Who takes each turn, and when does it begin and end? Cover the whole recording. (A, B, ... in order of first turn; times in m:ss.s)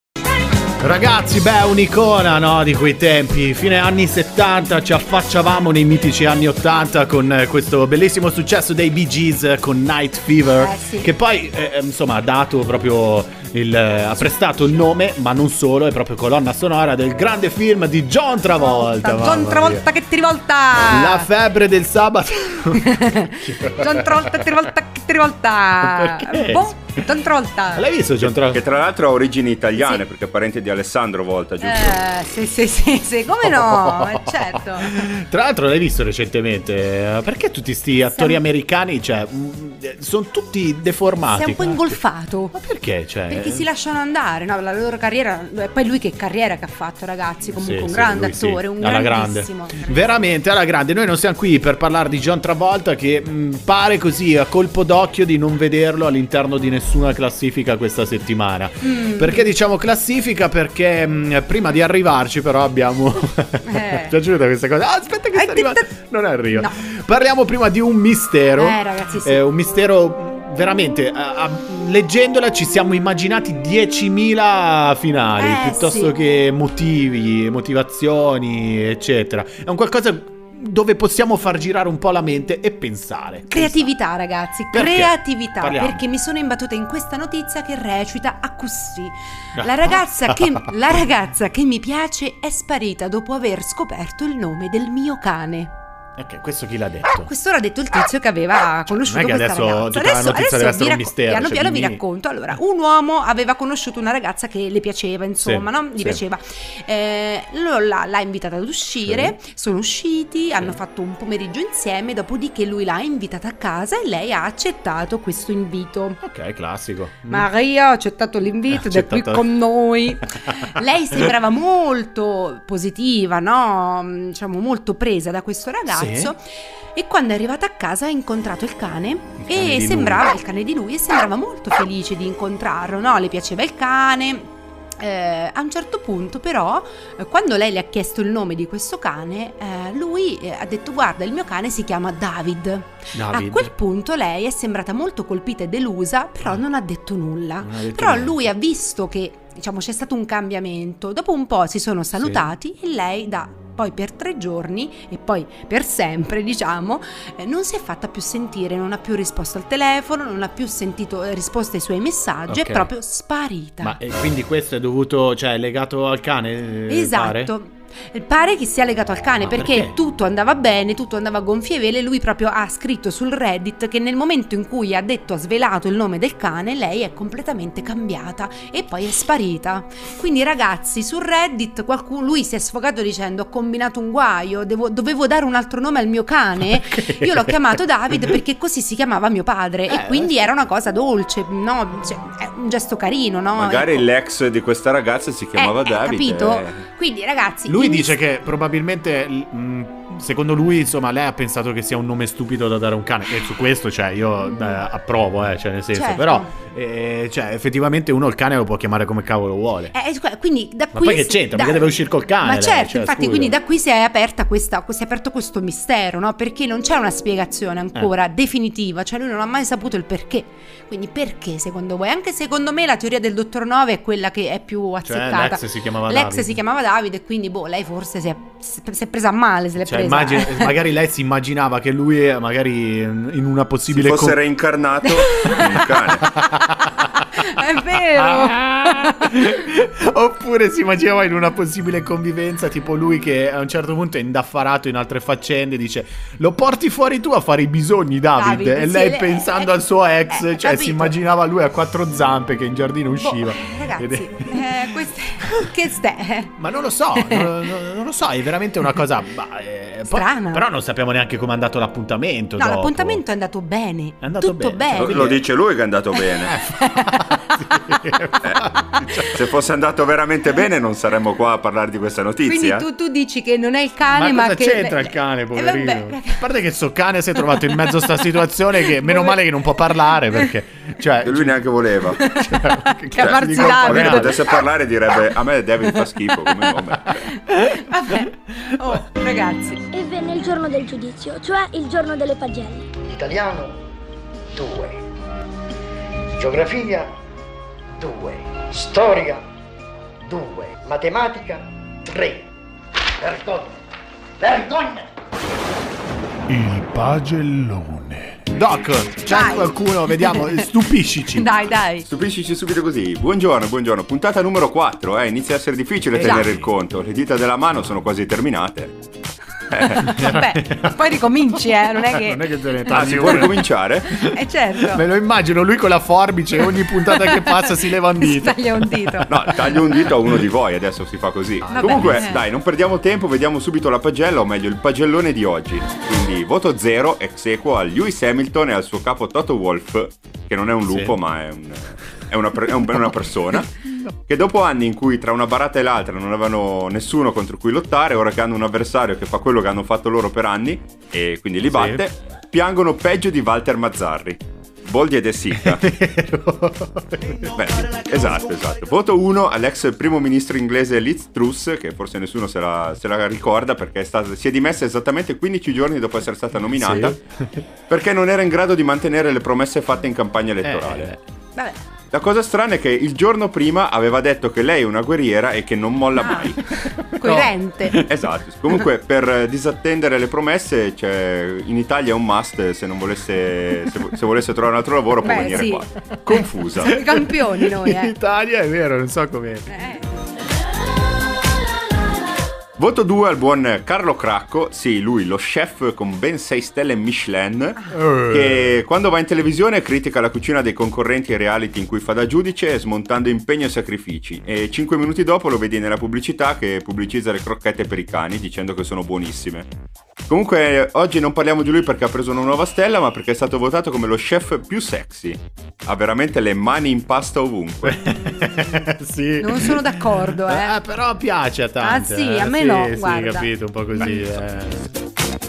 0:00.8-0:19.8 A
0:10.6-0:11.1 B
0:18.6-0:21.3 B
0:20.9-0:24.4 A
0:22.8-0:27.9 B
0:25.8-0:27.0 A
0:27.8-0:28.6 A
0:28.2-0:32.0 C
0:31.6-0:35.1 B
0:33.5-0:42.0 A
0:38.1-0:38.4 B
0:41.3-0:42.5 B
0:42.5-0:43.6 A
0:43.3-0:49.8 B
0:47.6-1:23.9 A
0:58.8-0:59.5 B
1:03.7-1:04.1 B
1:05.4-1:05.9 B
1:08.6-1:09.4 B
1:15.4-1:16.1 B
1:23.5-1:35.7 B
1:24.7-1:26.0 A
1:29.6-1:30.7 A
1:36.2-1:37.3 A
1:37.2-1:56.2 B
1:39.0-1:42.0 A
1:45.4-1:46.2 A
1:49.1-1:49.3 A
1:56.2-1:57.5 A
1:57.3-2:06.4 B
1:58.7-1:59.5 A
2:00.2-2:00.7 A
2:05.9-2:06.3 A
2:07.0-2:44.0 B
2:09.4-2:10.3 A
2:23.1-2:23.7 A
2:27.6-2:28.4 A
2:32.2-2:32.5 A
2:42.5-2:42.9 A
2:43.8-2:47.5 A
2:46.9-3:14.0 B
2:49.4-2:49.9 A
3:06.9-3:07.5 A
3:09.9-3:10.3 A
3:13.6-3:16.8 C
3:15.6-3:18.2 B
3:17.7-3:29.9 A
3:24.4-3:24.8 B
3:25.9-3:26.5 B
3:29.9-3:50.8 B
3:30.9-3:33.6 A
3:45.0-3:46.6 A
3:49.8-3:54.4 A
3:53.9-3:56.3 C
3:55.3-3:55.6 B
3:56.4-3:57.2 A
3:57.3-3:59.5 B
3:58.2-4:14.8 A
4:08.4-4:09.7 B
4:10.3-4:11.2 B
4:13.2-4:16.5 B
4:16.6-4:23.2 A
4:17.2-4:17.5 B
4:20.1-4:20.7 B
4:22.6-4:25.3 B
4:24.2-4:25.4 A
4:24.9-4:26.6 C
4:26.4-4:29.4 A
4:26.8-4:27.9 B
4:29.3-4:32.8 C
4:32.4-4:36.4 B
4:34.1-4:41.6 A
4:37.5-4:37.9 B
4:38.8-4:39.6 B
4:41.2-4:42.2 C
4:42.2-4:44.6 B
4:42.4-4:44.6 A
4:43.2-4:47.3 C
4:47.1-4:49.8 B
4:49.9-4:52.9 D
4:53.0-4:53.8 E
4:54.6-4:55.0 E
4:56.4-4:57.1 E
4:58.0-4:59.4 E
5:00.2-5:02.5 E
5:03.2-5:03.8 E
5:04.4-5:05.1 E
5:06.5-5:08.5 F
5:08.5-5:11.5 A
5:09.3-5:10.7 B
5:11.4-5:12.0 B
5:12.1-5:18.9 C
5:16.2-5:16.7 A
5:19.7-5:20.1 C
5:19.9-5:22.9 B
5:20.2-5:21.0 A
5:21.7-5:24.2 A
5:22.9-5:24.3 C
5:24.1-5:25.0 B
5:24.8-5:30.1 A
5:26.9-5:29.3 B
5:29.3-5:55.9 C
5:31.6-5:32.3 A
5:31.7-5:32.4 B
5:40.9-5:41.2 A
5:43.8-5:44.1 A
5:51.7-5:52.0 A
5:55.6-5:58.0 A
5:57.5-6:07.2 C
6:06.8-6:07.6 A
6:07.9-6:11.1 C
6:10.6-6:11.2 A
6:11.6-6:11.8 B
6:12.1-6:16.6 C
6:16.2-6:18.0 B
6:17.2-6:17.5 A
6:17.9-6:27.0 C
6:25.2-6:25.8 B
6:26.8-6:28.1 B
6:27.0-6:29.7 A
6:29.7-6:30.1 B
6:32.8-6:49.7 C
6:37.9-6:38.8 A
6:50.3-6:58.1 C
6:57.8-7:04.9 A
6:58.2-6:58.7 B
6:59.4-7:00.8 B
7:01.8-7:03.5 B